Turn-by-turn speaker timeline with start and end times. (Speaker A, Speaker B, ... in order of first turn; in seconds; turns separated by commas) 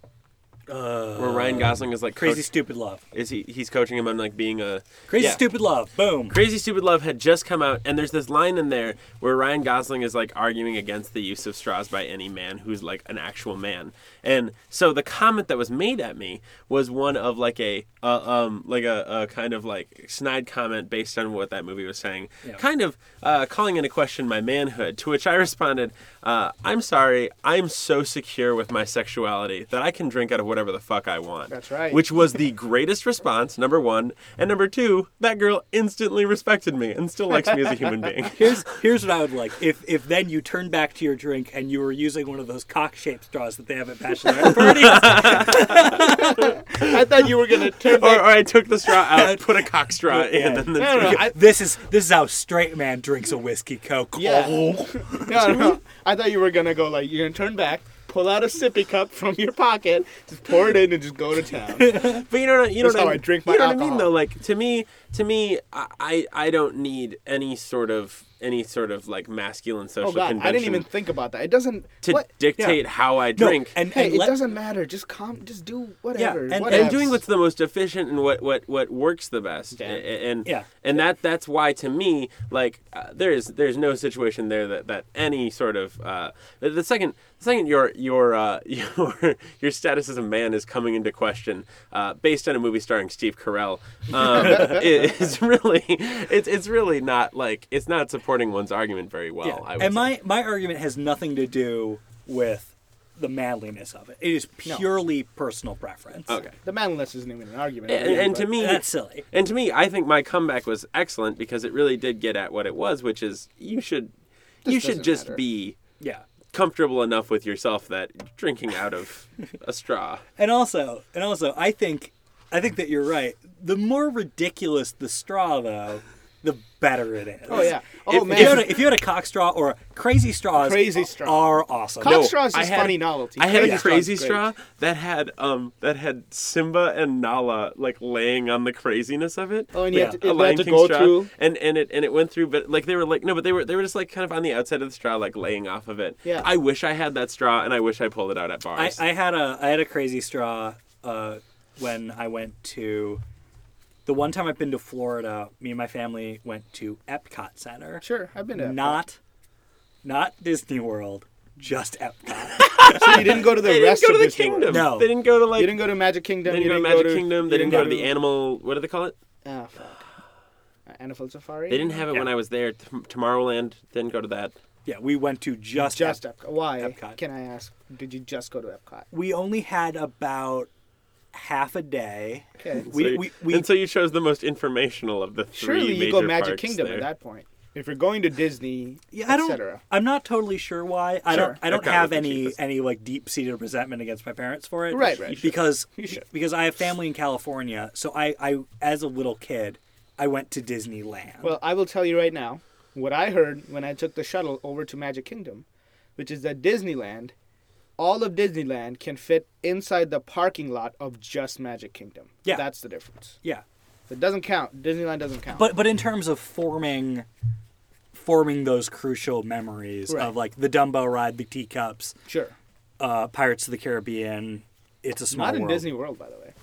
Speaker A: 0.7-3.0, Speaker B: 1.1-2.5, Speaker B: 3.1-5.4, Speaker A: 5.1-6.4, Speaker B: 6.3-38.4, Speaker C: 31.5-32.0, Speaker A: 38.2-46.5, Speaker B: 44.4-47.0, Speaker C: 44.9-48.3, Speaker B: 47.7-51.3, Speaker A: 49.1-55.7, Speaker C: 50.8-51.4, Speaker C: 54.2-62.1, Speaker A: 61.8-62.2, Speaker B: 61.9-70.9, Speaker C: 62.8-64.1, Speaker C: 70.0-72.8, Speaker B: 72.0-73.8, Speaker A: 73.3-74.4, Speaker C: 73.9-77.2, Speaker A: 76.2-77.0, Speaker B: 76.6-100.1, Speaker C: 79.7-80.0, Speaker A: 99.4-106.4, Speaker B: 106.3-106.5, Speaker C: 106.6-108.5, Speaker B: 107.9-114.1, Speaker A: 108.0-109.2, Speaker C: 114.6-115.4, Speaker B: 114.6-115.8, Speaker B: 116.5-120.2, Speaker A: 120.4-127.7, Speaker C: 127.5-128.8, Speaker B: 128.1-128.7, Speaker A: 128.3-132.2, Speaker C: 130.6-134.4, Speaker B: 132.0-149.0, Speaker A: 133.5-133.9, Speaker C: 139.7-141.3, Speaker A: 139.9-140.2, Speaker A: 148.7-153.2, Speaker A: 154.1-158.0, Speaker C: 158.0-159.0, Speaker A: 158.6-159.2, Speaker A: 160.0-163.3, Speaker B: 162.6-165.9, Speaker C: 162.9-164.9, Speaker A: 164.7-165.1, Speaker C: 165.5-168.1, Speaker B: 166.4-169.2, Speaker A: 167.7-168.0, Speaker C: 169.4-170.1, Speaker C: 170.9-171.9, Speaker B: 171.7-174.5, Speaker A: 174.8-176.2, Speaker C: 175.7-179.1, Speaker A: 176.8-177.2, Speaker A: 179.1-180.7, Speaker A: 181.3-183.7, Speaker C: 182.6-182.8, Speaker B: 182.8-187.1, Speaker C: 185.5-189.8, Speaker A: 189.1-201.5, Speaker B: 191.3-192.6, Speaker C: 191.3-191.6, Speaker C: 194.9-196.2, Speaker C: 201.4-205.6, Speaker C: 206.2-207.3, Speaker C: 208.0-213.4, Speaker C: 214.1-215.7, Speaker A: 215.5-217.2, Speaker A: 218.1-222.2, Speaker C: 220.1-220.3, Speaker C: 222.3-222.6, Speaker A: 223.0-225.8, Speaker C: 225.3-226.5